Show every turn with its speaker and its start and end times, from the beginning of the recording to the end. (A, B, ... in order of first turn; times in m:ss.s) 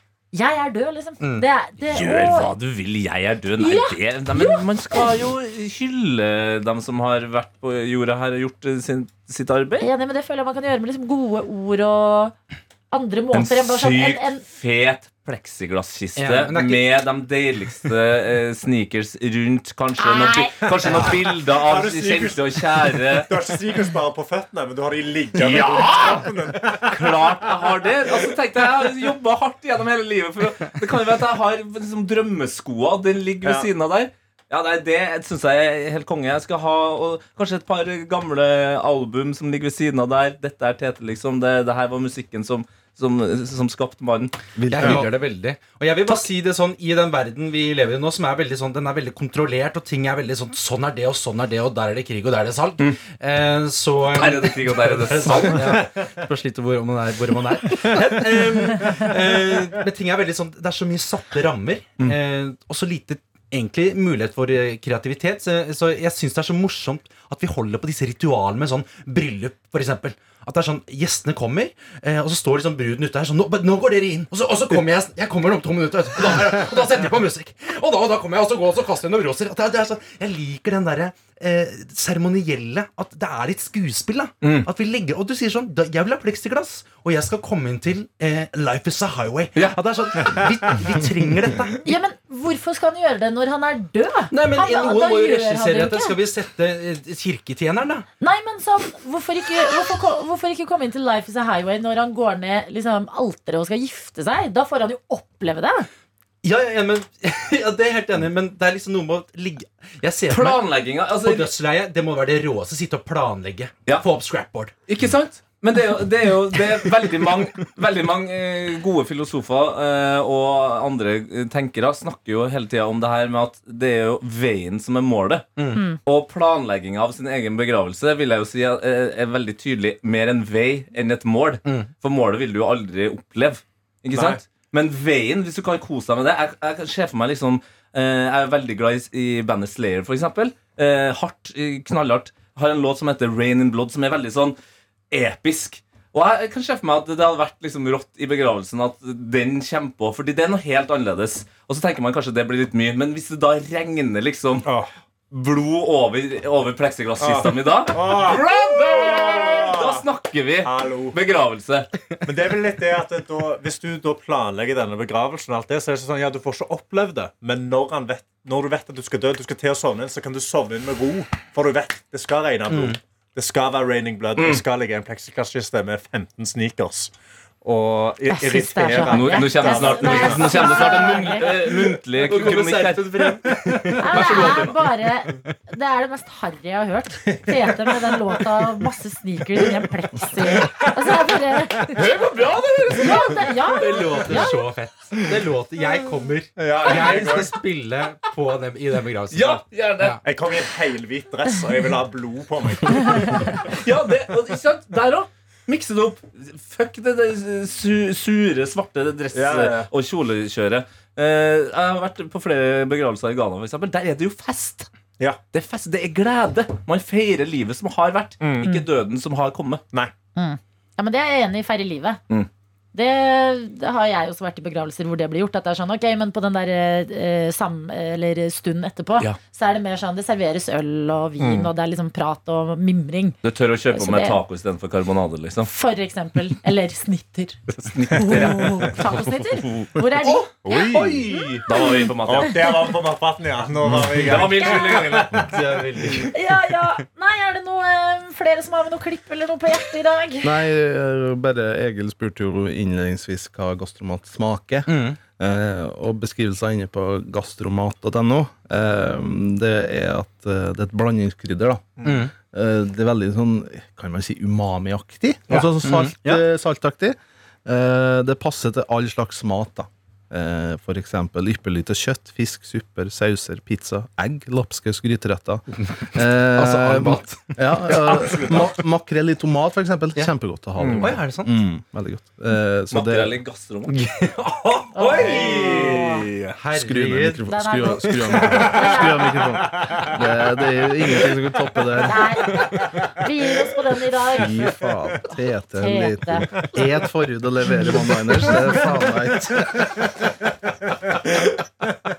0:00.3-0:02.6 A
0:01.9-0:09.9 B
0:03.6-0:05.1 A
0:09.8-0:12.3 A
0:12.9-0:14.4 A
0:13.3-0:23.3 B
0:16.2-0:16.8 C
0:20.0-0:20.7 A
0:21.3-0:28.3 D
0:25.4-0:26.3 B
0:26.8-0:44.3 B
0:33.4-0:33.7 D
0:44.6-0:45.1 E
0:44.7-1:31.9 C
0:54.1-0:55.8 B
1:24.4-1:24.7 B
1:31.8-1:36.2 A
1:34.3-1:38.0 C
1:38.2-1:45.9 A
1:46.4-1:54.7 C
1:50.3-1:51.5 B
1:54.9-2:24.6 B
2:05.6-2:05.8 C
2:14.1-2:14.4 D
2:25.1-2:34.7 B
2:34.6-2:34.9 D
2:35.3-2:41.9 B
2:37.2-2:40.0 D
2:40.6-2:41.2 D
2:42.2-3:01.0 D
2:52.7-2:53.0 C
2:54.3-2:54.6 B
2:58.3-3:01.7 A
2:59.0-3:04.8 B
3:01.8-3:04.5 C
3:04.0-3:12.2 A
3:10.6-3:10.9 B
3:11.8-3:14.5 B
3:12.9-3:14.6 A
3:13.8-3:20.2 C
3:16.6-3:17.5 D
3:19.3-3:20.2 B
3:20.2-3:23.6 D
3:23.4-3:34.9 B
3:29.3-3:29.9 D
3:35.5-3:39.8 B
3:38.4-3:38.7 D
3:40.4-3:42.2 A
3:42.9-3:54.4 A
3:51.4-3:51.7 D
3:53.4-3:55.7 B
3:55.6-4:02.0 A
3:57.7-4:00.0 B
4:00.6-4:01.4 D
4:01.6-4:02.6 B
4:02.2-4:05.6 D
4:04.2-4:05.4 B
4:05.4-4:06.3 C
4:06.3-4:10.6 A
4:10.4-4:43.4 E
4:14.8-4:15.2 C
4:22.0-4:22.3 C
4:25.8-4:26.3 C
4:35.8-4:38.0 C
4:38.0-4:38.8 D
4:40.8-4:41.1 D
4:40.9-4:41.6 C
4:42.9-4:44.0 B
4:43.9-4:45.7 C
4:44.9-4:46.1 A
4:45.1-4:46.6 D
4:46.6-4:47.5 C
4:46.7-4:52.3 E
4:47.5-4:49.5 A
4:48.1-4:50.2 D
4:51.1-4:51.4 D
4:52.0-4:54.7 A
4:54.3-4:59.9 E
4:55.7-4:56.5 A
4:57.8-4:59.0 D